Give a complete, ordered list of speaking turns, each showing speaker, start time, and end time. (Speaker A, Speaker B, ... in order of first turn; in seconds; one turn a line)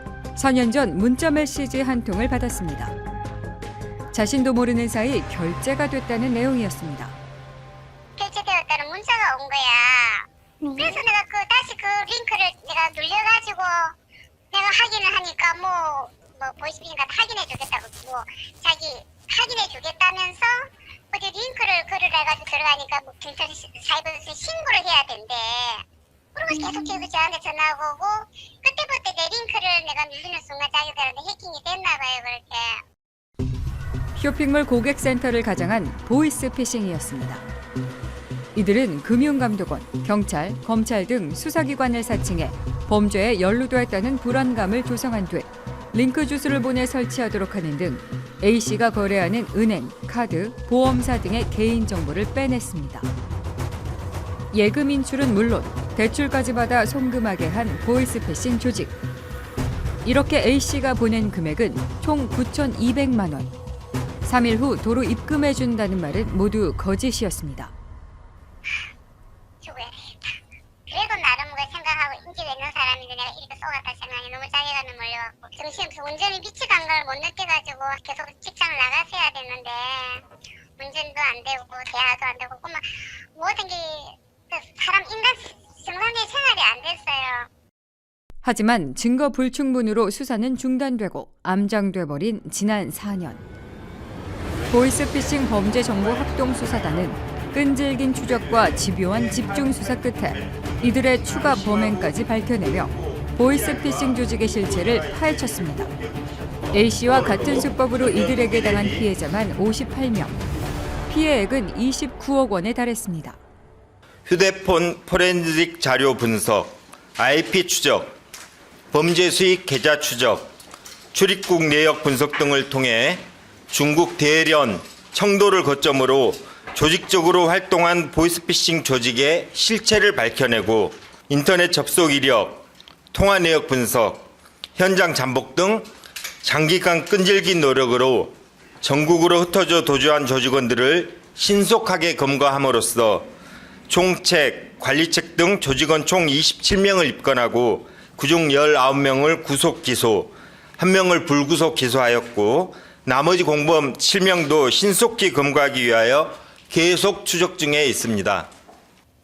Speaker A: 0.3-2.9
Speaker A: 4.1-7.1
Speaker B: 8.2-13.9
Speaker B: 14.5-32.8
Speaker A: 34.1-37.5
Speaker A: 38.5-53.1
Speaker A: 54.5-58.9
Speaker A: 60.0-63.5
Speaker A: 64.2-67.7
Speaker B: 69.6-70.4
Speaker B: 70.9-80.2
Speaker B: 80.8-87.5
Speaker A: 88.4-93.4
Speaker A: 94.7-105.9
Speaker C: 96.2-97.0
Speaker C: 98.2-102.3
Speaker C: 102.9-106.3
Speaker A: 106.7-110.4
Speaker C: 106.9-109.1
Speaker A: 111.1-113.4
Speaker C: 114.2-118.1
Speaker C: 118.9-120.5
Speaker C: 121.1-135.9
Speaker C: 136.4-143.3
Speaker C: 143.9-158.5